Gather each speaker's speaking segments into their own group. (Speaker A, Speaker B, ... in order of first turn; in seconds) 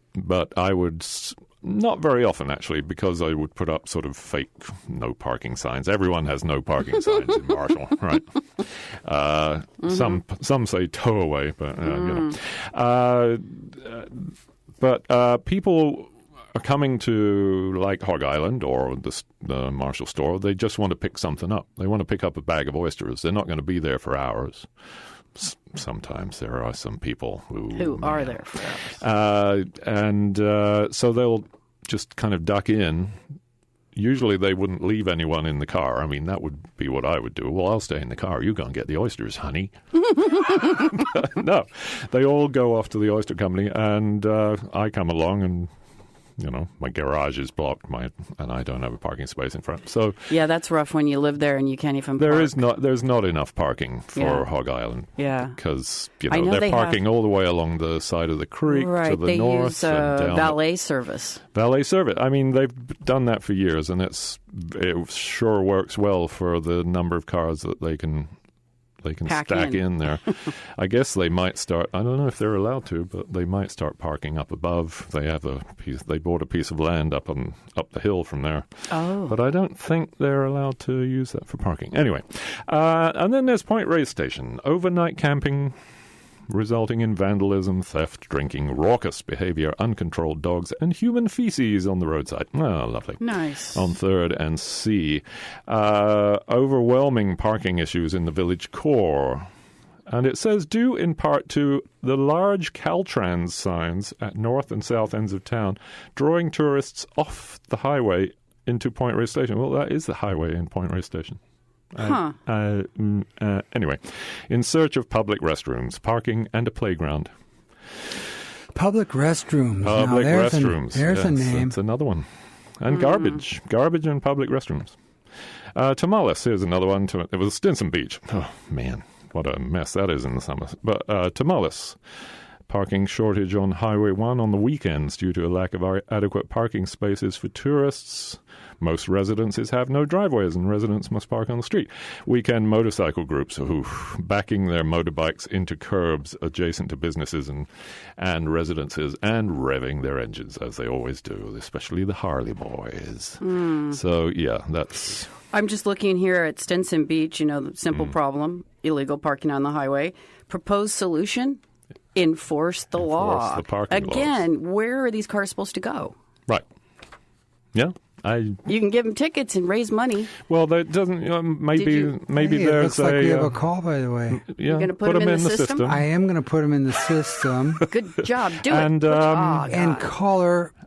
Speaker A: 0.2-24.7, 25.4-33.1, 34.0-45.7, 46.4-50.3, 52.2-60.6, 61.5-68.3, 69.0-78.7, 79.2-85.7, 86.5-99.5, 100.1-111.4, 111.9-117.3, 119.8-122.3, 122.8-125.0, 125.8-132.0, 132.7-155.3, 163.0-164.4, 167.7-168.6, 170.5-173.6, 174.3-176.1, 178.6-179.7
Speaker B: 27.8-29.0, 50.3-52.6, 54.1-54.5, 55.2-55.5, 56.3-57.0, 58.7-61.4, 69.2-69.9, 78.9-79.3, 93.2-93.9, 112.0-112.3, 153.4-154.0, 155.5-161.6, 162.2-166.1, 168.7-170.3, 171.8-172.2, 174.7-175.9, 177.8-180.1
Speaker C: 118.7-121.8, 172.3-174.4, 175.9-177.8, 179.7-180.7